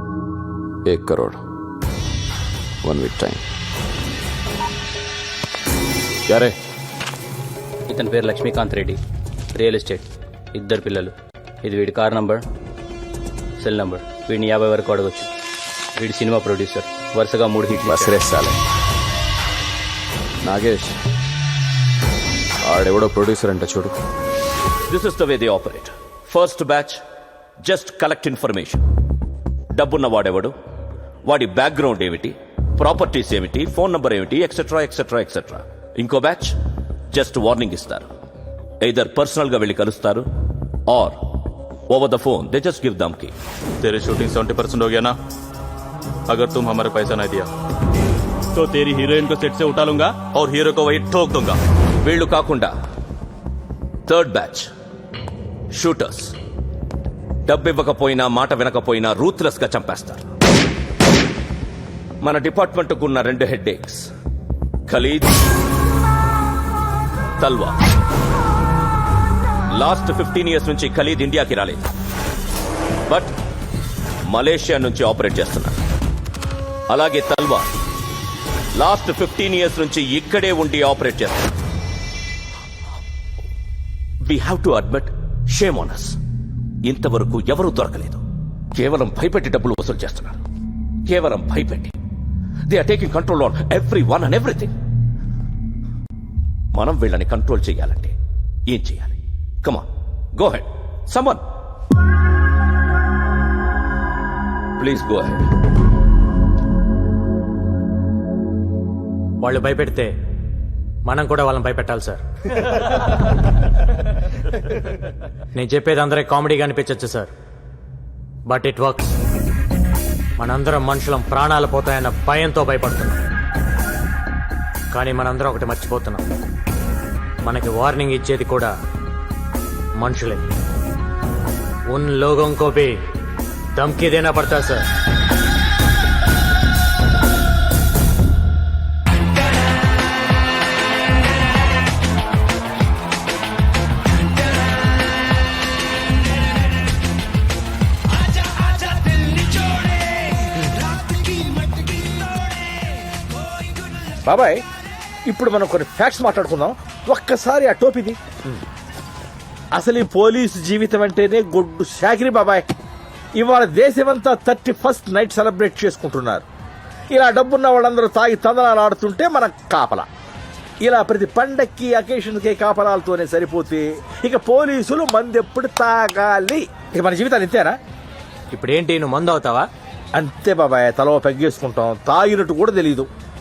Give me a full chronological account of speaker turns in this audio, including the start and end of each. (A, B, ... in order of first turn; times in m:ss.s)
0:00.9-0:01.4 A
0:02.8-0:03.4 A
0:06.3-0:06.6 A
0:07.9-0:09.0 B
0:09.6-0:12.4 B
0:13.6-0:15.3 B
0:16.0-0:18.2 B
0:17.8-0:18.6 A
0:20.4-0:21.0 A
0:22.6-0:24.0 A
0:24.9-0:27.0 C
0:27.6-0:28.8 C
0:29.8-0:30.5 C
0:31.3-0:36.6 C
0:37.1-0:38.1 C
0:38.8-0:40.3 C
0:40.9-0:41.2 C
0:41.9-0:43.3 C
0:43.8-0:45.2 D
0:46.3-0:47.5 D
0:48.6-0:51.6 D
0:52.0-0:52.7 C
0:54.1-0:54.7 C
0:55.8-0:56.4 C
0:57.5-1:00.2 C
1:02.2-1:04.1 C
1:04.9-1:05.4 C
1:07.4-1:07.8 C
1:09.7-1:11.8 C
1:14.3-1:15.8 C
1:16.9-1:17.7 C
1:18.8-1:21.5 C
1:24.3-1:26.2 C
1:26.9-1:28.2 C
1:28.7-1:30.4 C
1:31.1-1:31.9 C
1:32.7-1:34.7 C
1:36.7-1:38.1 C
1:38.7-1:41.4 C
1:44.8-1:45.4 C
1:49.4-1:50.1 E
1:51.0-1:52.2 E
1:55.6-1:57.3 E
1:58.5-1:59.2 E
2:00.4-2:03.2 E
2:04.9-2:06.2 E
2:07.4-2:08.7 E
2:10.0-2:10.5 E
2:11.9-2:13.0 E
2:13.8-2:14.8 E
2:34.2-2:34.6 F
2:35.3-2:38.5 F
2:39.7-2:42.6 F
2:43.4-2:46.5 F
2:47.1-2:50.1 F
2:50.8-2:57.8 F
2:58.5-2:59.7 E
3:00.1-3:03.1 F